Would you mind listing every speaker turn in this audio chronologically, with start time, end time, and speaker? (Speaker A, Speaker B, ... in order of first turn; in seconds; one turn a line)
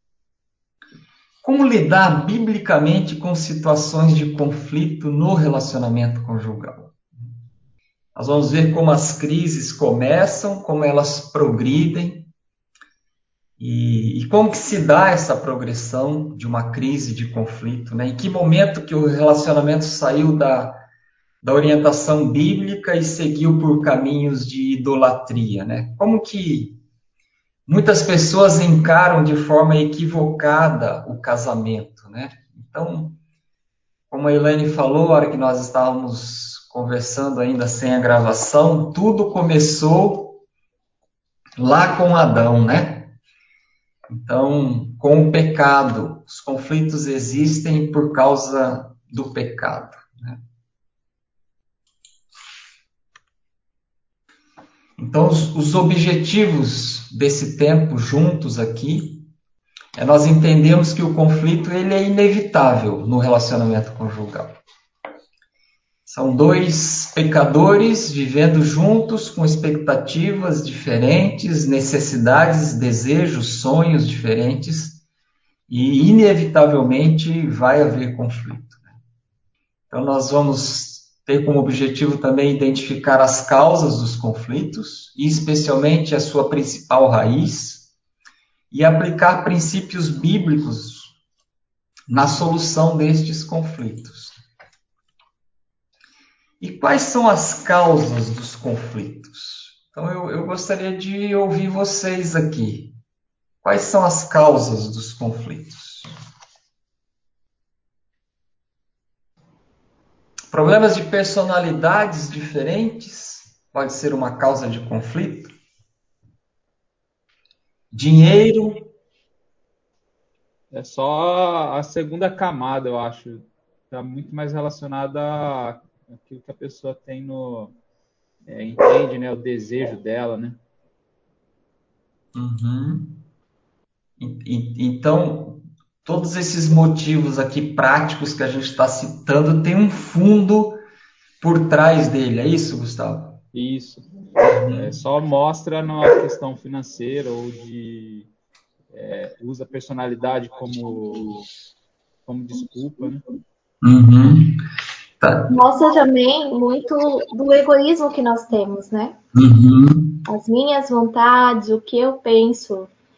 Speaker A: 1.4-7.0
Speaker A: 8.2-12.3
Speaker A: 13.6-20.8
Speaker A: 21.4-26.8
Speaker A: 27.7-33.2
Speaker A: 34.1-40.4
Speaker A: 41.6-43.1
Speaker A: 44.1-50.4
Speaker A: 55.0-59.3
Speaker A: 60.0-64.6
Speaker A: 66.1-75.0
Speaker A: 75.7-78.9
Speaker A: 79.9-87.9
Speaker A: 88.7-91.2
Speaker A: 92.1-94.4
Speaker A: 96.6-103.0
Speaker A: 103.6-106.1
Speaker A: 110.5-115.5
Speaker A: 117.9-118.9
Speaker B: 120.7-127.8
Speaker B: 128.5-130.6
Speaker A: 132.3-133.2
Speaker A: 134.2-140.8
Speaker A: 141.4-143.4
Speaker B: 143.5-144.1
Speaker A: 144.5-144.9
Speaker B: 144.7-148.3
Speaker B: 148.9-151.5
Speaker B: 152.2-153.2
Speaker A: 153.8-154.6
Speaker A: 155.2-155.5
Speaker C: 155.5-159.2
Speaker A: 159.3-160.2
Speaker C: 160.3-162.9